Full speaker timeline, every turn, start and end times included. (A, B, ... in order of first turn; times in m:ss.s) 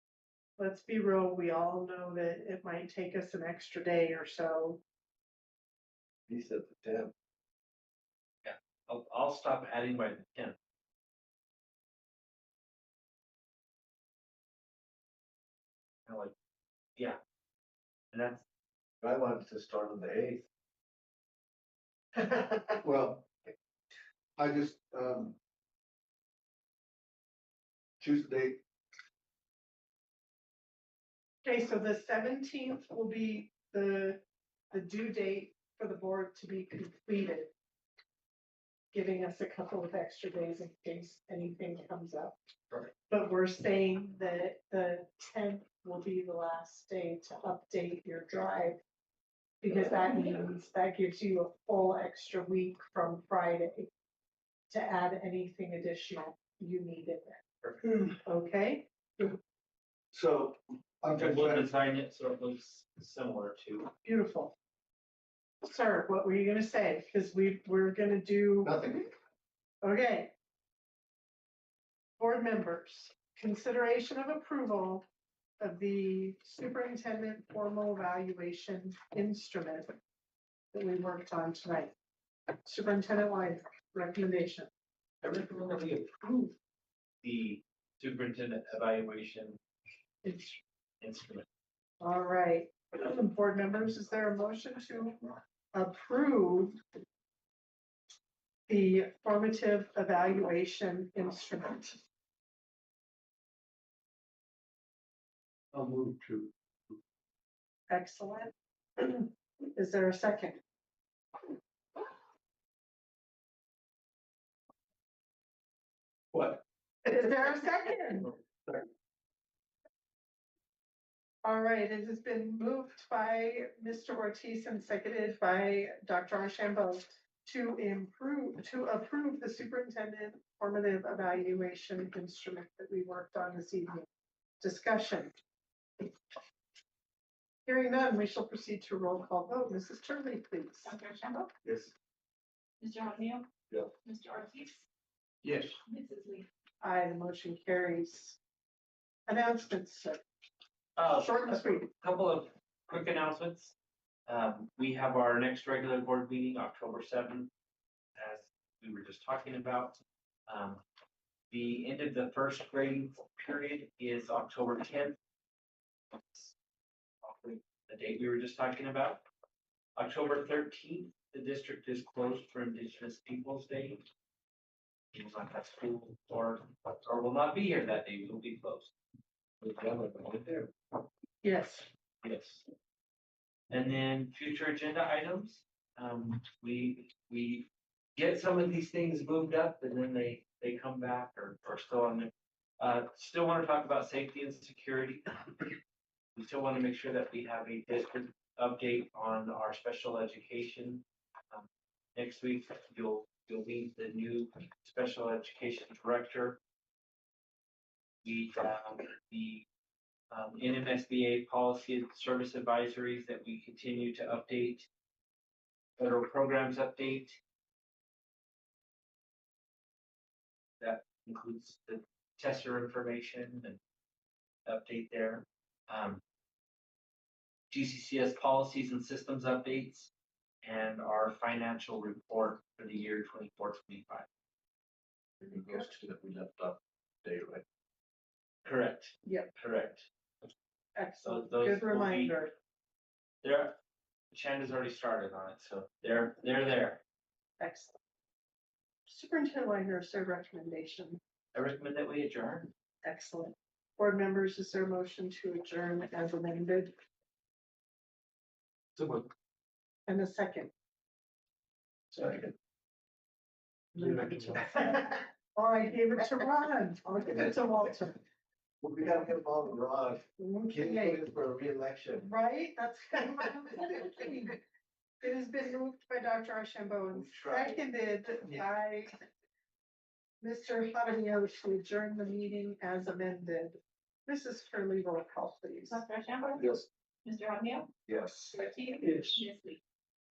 0:00.6-0:04.8 A
0:06.3-0:07.1 B
0:08.4-0:10.6 C
0:16.1-0:16.3 C
0:18.1-0:18.4 C
0:19.0-0:20.4 B
0:22.2-0:23.3 B
0:24.4-0:25.4 B
0:28.0-0:28.6 B
0:31.4-0:37.5 A
0:38.9-0:42.4 A
0:43.1-0:48.8 A
0:49.6-0:53.9 A
0:54.7-0:57.4 A
0:57.6-0:58.0 C
0:58.2-0:59.4 A
1:00.1-1:01.7 B
1:01.2-1:03.9 C
1:04.0-1:04.5 A
1:05.6-1:08.8 A
1:08.6-1:09.1 B
1:09.8-1:10.3 A
1:12.2-1:15.0 A
1:15.6-1:20.0 A
1:20.7-1:21.9 A
1:22.6-1:24.7 A
1:25.2-1:26.5 C
1:27.2-1:29.6 C
1:30.2-1:30.6 A
1:31.0-1:31.5 C
1:32.0-1:36.8 A
1:38.7-1:42.0 A
1:45.7-1:47.0 B
1:47.9-1:50.6 A
1:56.3-1:56.6 B
1:57.0-1:58.3 A
2:01.4-2:14.1 A
2:14.6-2:15.3 A
2:17.7-2:20.9 A
2:20.8-2:21.5 D
2:21.6-2:21.9 B
2:22.8-2:23.5 D
2:24.0-2:24.8 D
2:25.4-2:25.8 B
2:25.8-2:26.5 D
2:26.8-2:28.4 A
2:29.3-2:30.2 A
2:31.0-2:33.7 C
2:31.1-2:31.9 A
2:34.3-2:37.5 C
2:38.2-2:40.8 C
2:41.5-2:45.2 C
2:46.1-2:46.5 C
2:47.2-2:49.2 C
2:50.0-2:54.0 C
2:55.1-2:58.9 C
2:59.6-3:00.7 C
3:01.4-3:01.9 A
3:02.2-3:02.7 C
3:03.7-3:15.8 C
3:16.4-3:26.6 C
3:28.2-3:29.6 C
3:30.3-3:34.9 C
3:36.0-3:37.4 C
3:40.8-3:43.8 C
3:44.7-3:46.2 C
3:47.7-3:50.1 C
3:50.6-3:54.3 C
3:55.5-3:57.6 B
3:58.6-4:00.1 C
3:59.3-3:59.5 A
4:01.0-4:02.5 A
4:01.2-4:02.4 C
4:03.4-4:03.8 C
4:04.3-4:07.0 C
4:07.6-4:08.0 A
4:09.1-4:11.2 A
4:11.5-4:12.7 C
4:13.0-4:16.9 A
4:19.0-4:19.3 B
4:20.1-4:20.7 A
4:22.1-4:22.5 B
4:24.0-4:25.1 B
4:24.0-4:28.2 A
4:27.3-4:27.5 B
4:28.8-4:32.3 B
4:30.4-4:31.2 A
4:32.2-4:34.6 A
4:35.2-4:39.2 A
4:37.1-4:37.8 B
4:40.4-4:46.0 A
4:45.9-4:46.7 D
4:46.6-4:46.9 B
4:47.2-4:47.9 D
4:48.1-4:49.4 B
4:48.5-4:49.8 D